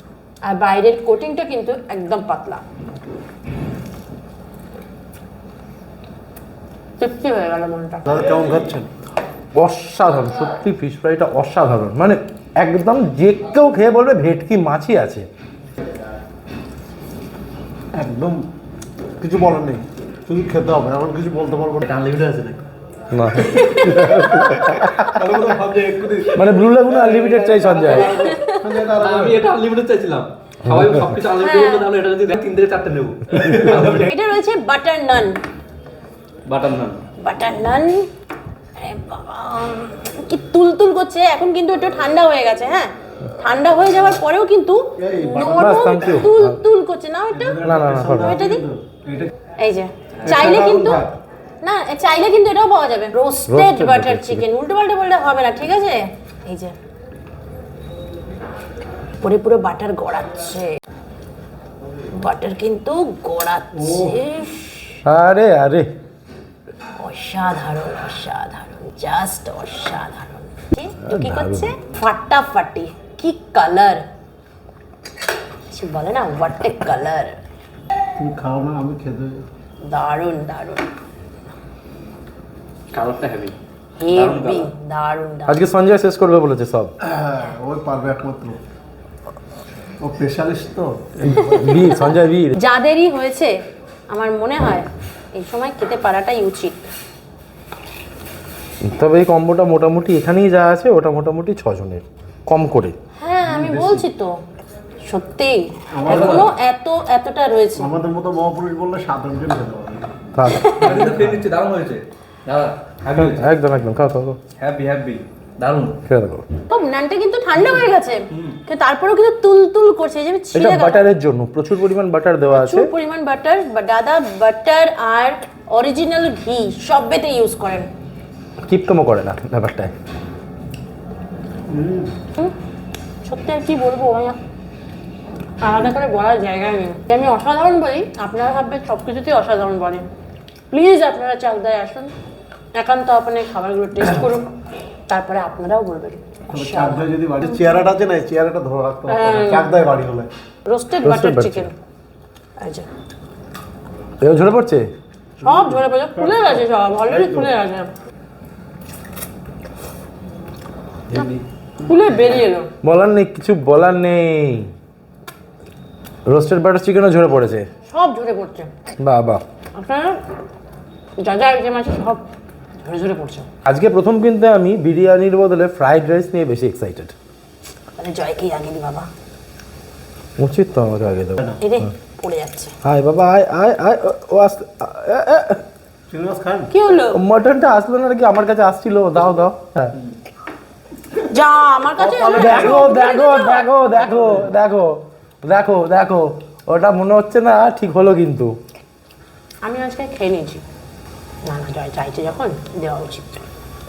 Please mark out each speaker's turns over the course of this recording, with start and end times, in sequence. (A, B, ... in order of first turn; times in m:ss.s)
0:00.4-0:02.6 A
0:07.0-0:08.1 A
0:08.1-0:08.9 B
0:09.5-0:15.3 C
0:17.9-0:18.5 B
0:19.2-0:21.8 B
0:21.8-0:22.6 D
0:23.1-0:25.1 C
0:23.6-0:23.8 A
0:24.0-0:29.5 B
0:26.3-0:28.1 C
0:27.2-0:27.8 D
0:27.9-0:28.7 A
0:28.9-0:34.1 D
0:31.4-0:31.9 A
0:34.0-0:35.4 A
0:36.5-0:37.0 D
0:37.2-0:38.1 A
0:38.8-0:48.6 A
0:45.0-0:46.3 B
0:45.4-0:46.6 C
0:47.3-0:49.3 B
0:47.6-0:48.4 C
0:49.6-0:51.0 A
0:50.2-0:50.5 D
0:50.2-0:51.1 B
0:51.6-0:56.7 A
0:53.5-0:54.4 C
0:59.2-1:00.8 A
1:02.2-1:05.0 A
1:05.0-1:05.9 C
1:07.0-1:14.0 A
1:11.0-1:11.7 C
1:15.7-1:17.4 A
1:18.2-1:19.4 B
1:19.8-1:20.9 A
1:22.9-1:23.6 D
1:24.0-1:25.6 A
1:24.1-1:24.7 D
1:25.5-1:26.9 C
1:27.0-1:28.6 B
1:30.0-1:31.4 B
1:31.3-1:32.5 C
1:31.3-1:33.5 A
1:34.1-1:36.8 A
1:38.8-1:43.0 C
1:43.2-1:44.4 A
1:43.5-1:44.0 B
1:45.0-1:47.9 A
1:45.9-1:46.3 B
1:46.1-1:46.5 D
1:47.8-1:50.1 B
1:50.3-1:50.8 C
1:50.4-1:51.0 A
1:50.7-1:53.5 D
1:53.2-1:54.4 C
1:54.6-1:56.0 D
1:56.0-1:56.4 C
1:56.7-2:01.0 A
2:00.5-2:02.9 C
2:02.5-2:07.9 A
2:08.6-2:09.9 C
2:11.7-2:12.1 B
2:13.2-2:14.4 A
2:15.6-2:20.0 A
2:20.7-2:22.1 A
2:22.8-2:24.5 A
2:25.1-2:27.6 A
2:26.5-2:30.3 B
2:29.1-2:29.8 A
2:30.6-2:31.7 A
2:31.0-2:31.7 C
2:32.6-2:32.9 A
2:34.2-2:34.9 C
2:35.4-2:37.5 B
2:35.4-2:37.9 A
2:41.8-2:42.7 A
2:42.8-2:44.7 C
2:46.3-2:47.7 C
2:47.9-2:48.7 A
2:49.0-2:49.4 C
2:49.7-2:50.2 A
2:51.2-2:52.2 A
2:52.8-2:53.4 A
2:53.6-2:57.1 C
2:58.0-2:59.1 A
3:00.4-3:01.4 C
3:01.6-3:02.7 A
3:02.8-3:05.6 C
3:06.1-3:06.7 B
3:06.7-3:07.2 A
3:07.1-3:09.9 C
3:11.3-3:13.7 A
3:12.0-3:12.9 B
3:12.4-3:18.5 C
3:19.6-3:20.6 A
3:21.4-3:23.4 A